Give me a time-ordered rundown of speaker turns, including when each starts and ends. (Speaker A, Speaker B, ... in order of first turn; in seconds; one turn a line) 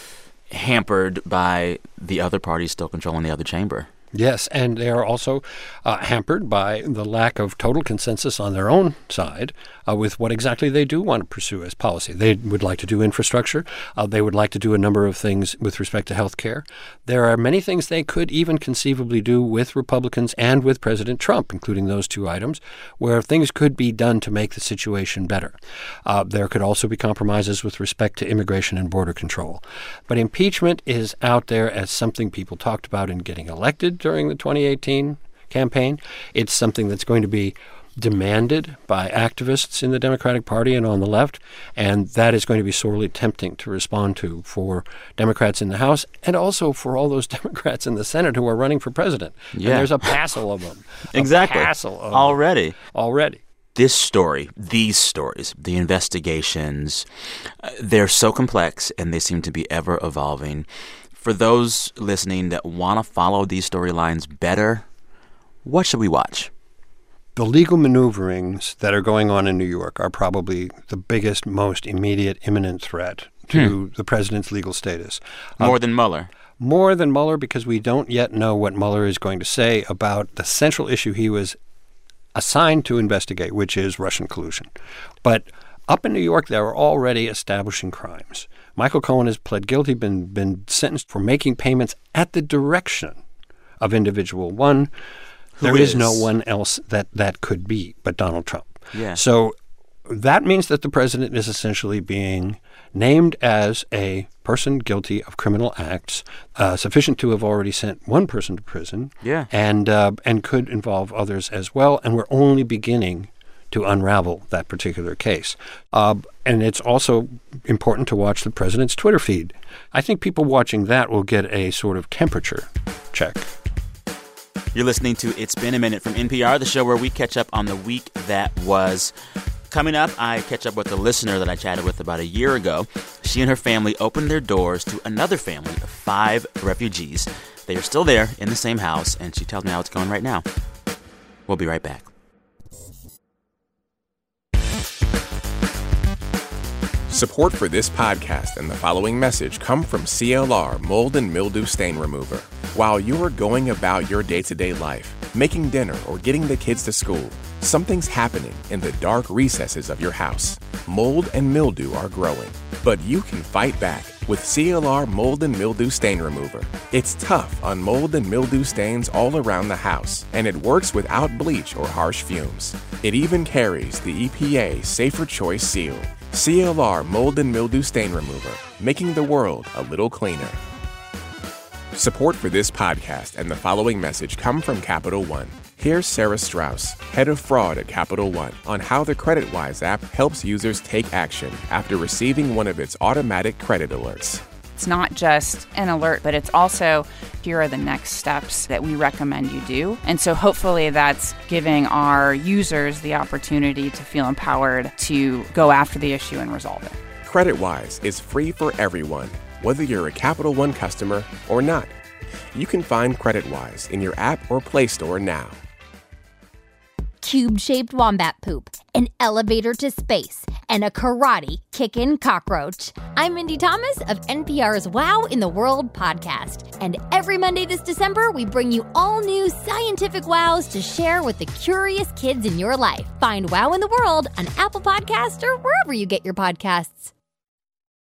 Speaker A: 0.5-3.9
Speaker B: 4.1-53.4
Speaker A: 49.5-50.1
Speaker A: 51.1-52.8
Speaker A: 53.8-57.0
Speaker A: 57.6-64.9
Speaker A: 65.6-66.5
Speaker B: 67.4-75.8
Speaker A: 75.6-76.3
Speaker B: 76.6-81.6
Speaker B: 82.3-84.7
Speaker B: 85.2-93.2
Speaker B: 93.8-94.9
Speaker A: 95.6-96.3
Speaker B: 95.6-99.5
Speaker A: 98.9-99.2
Speaker B: 100.1-123.5
Speaker A: 109.2-109.5
Speaker A: 124.7-129.1
Speaker A: 129.7-140.5
Speaker A: 141.5-142.1
Speaker C: 147.1-180.6
Speaker C: 181.9-194.4
Speaker D: 194.8-207.0
Speaker C: 207.2-211.9
Speaker C: 212.5-215.6
Speaker E: 217.2-237.1